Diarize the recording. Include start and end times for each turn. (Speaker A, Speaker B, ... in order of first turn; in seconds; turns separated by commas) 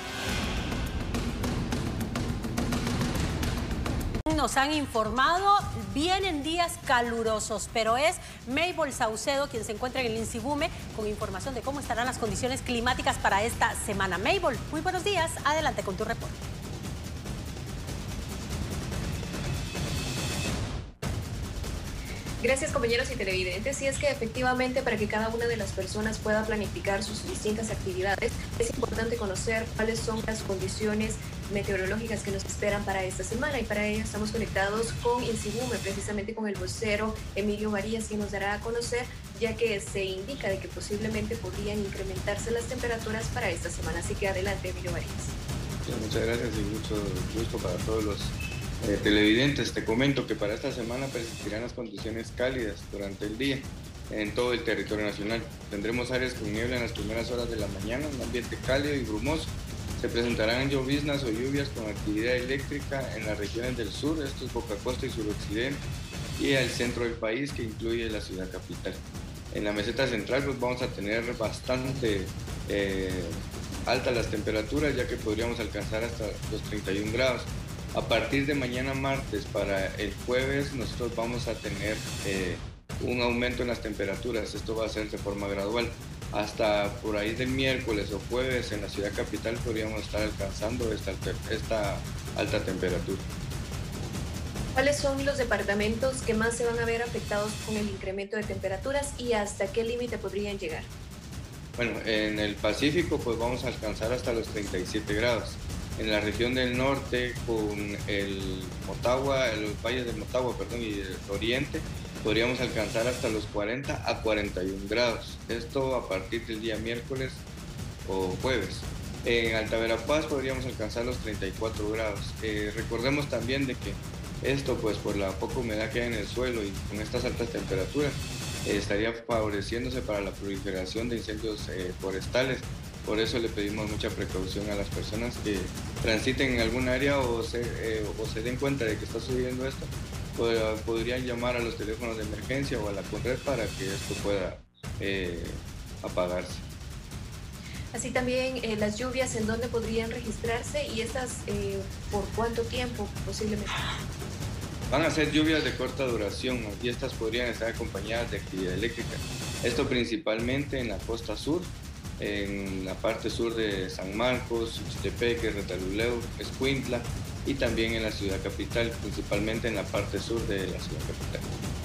Speaker A: 4.3-16.5, Speaker B: 22.4-45.4, Speaker C: 45.9-65.8, Speaker C: 66.4-93.2, Speaker B: 94.7-100.9, Speaker C: 101.8-117.4, Speaker C: 118.0-146.6, Speaker B: 147.9-153.8, Speaker C: 154.9-171.4